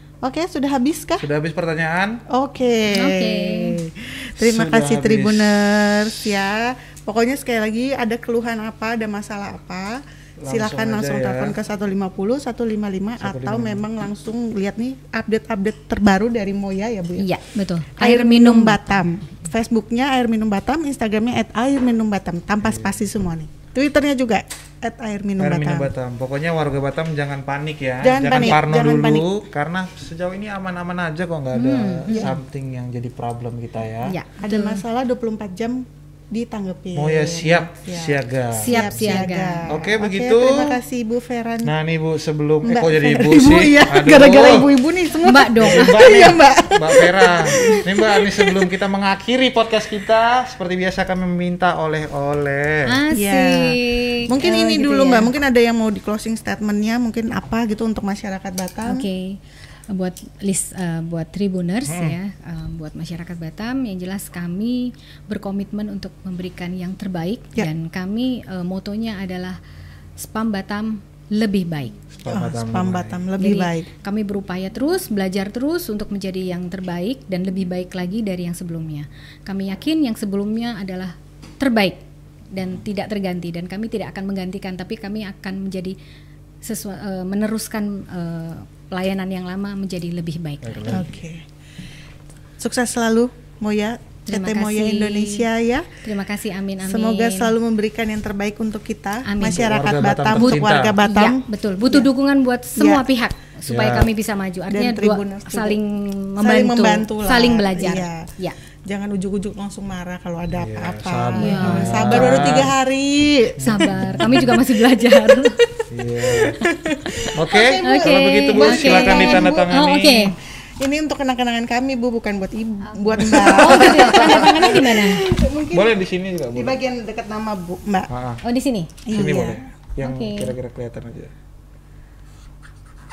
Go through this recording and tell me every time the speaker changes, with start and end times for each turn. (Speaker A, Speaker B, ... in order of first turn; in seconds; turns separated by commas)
Speaker A: 0.2-1.3, Speaker B: 1.2-2.2, Speaker A: 2.3-17.3, Speaker C: 2.9-3.8, Speaker B: 4.4-6.3, Speaker B: 10.4-11.5, Speaker B: 13.2-13.8, Speaker C: 17.2-18.8, Speaker A: 18.0-25.9, Speaker B: 25.4-34.1, Speaker A: 28.0-29.3, Speaker C: 31.5-32.3, Speaker A: 32.1-32.4, Speaker C: 34.0-34.8, Speaker A: 34.4-41.7, Speaker B: 36.9-38.9, Speaker C: 38.5-39.7, Speaker B: 39.7-40.8, Speaker B: 41.6-44.7, Speaker A: 42.6-48.7, Speaker C: 45.2-46.2, Speaker B: 45.5-53.0, Speaker C: 52.9-55.3, Speaker A: 53.1-59.0, Speaker C: 58.8-69.6, Speaker B: 61.8-62.1, Speaker C: 70.2-71.9, Speaker B: 72.1-73.2, Speaker A: 72.3-73.9, Speaker C: 73.4-82.0, Speaker C: 82.5-86.0, Speaker C: 86.6-91.0, Speaker B: 90.6-91.1, Speaker A: 90.9-91.5, Speaker A: 92.6-95.9, Speaker C: 94.2-95.5, Speaker C: 96.0-97.5, Speaker A: 96.8-102.1, Speaker C: 99.2-99.7, Speaker B: 99.5-101.0, Speaker C: 100.3-108.6, Speaker A: 102.8-103.0, Speaker B: 103.7-104.1, Speaker A: 104.7-105.8, Speaker A: 106.4-108.3, Speaker A: 108.9-119.8, Speaker B: 110.5-112.7, Speaker C: 111.4-112.6, Speaker C: 113.6-115.6, Speaker B: 113.6-114.6, Speaker B: 115.9-116.7, Speaker B: 117.3-120.3, Speaker C: 117.8-120.3, Speaker A: 120.6-125.9, Speaker C: 122.9-125.2, Speaker B: 123.3-124.7, Speaker B: 125.7-126.8, Speaker A: 126.5-128.1, Speaker B: 128.1-128.4, Speaker C: 128.4-129.3, Speaker A: 129.1-129.6, Speaker B: 129.1-131.3, Speaker C: 130.0-130.5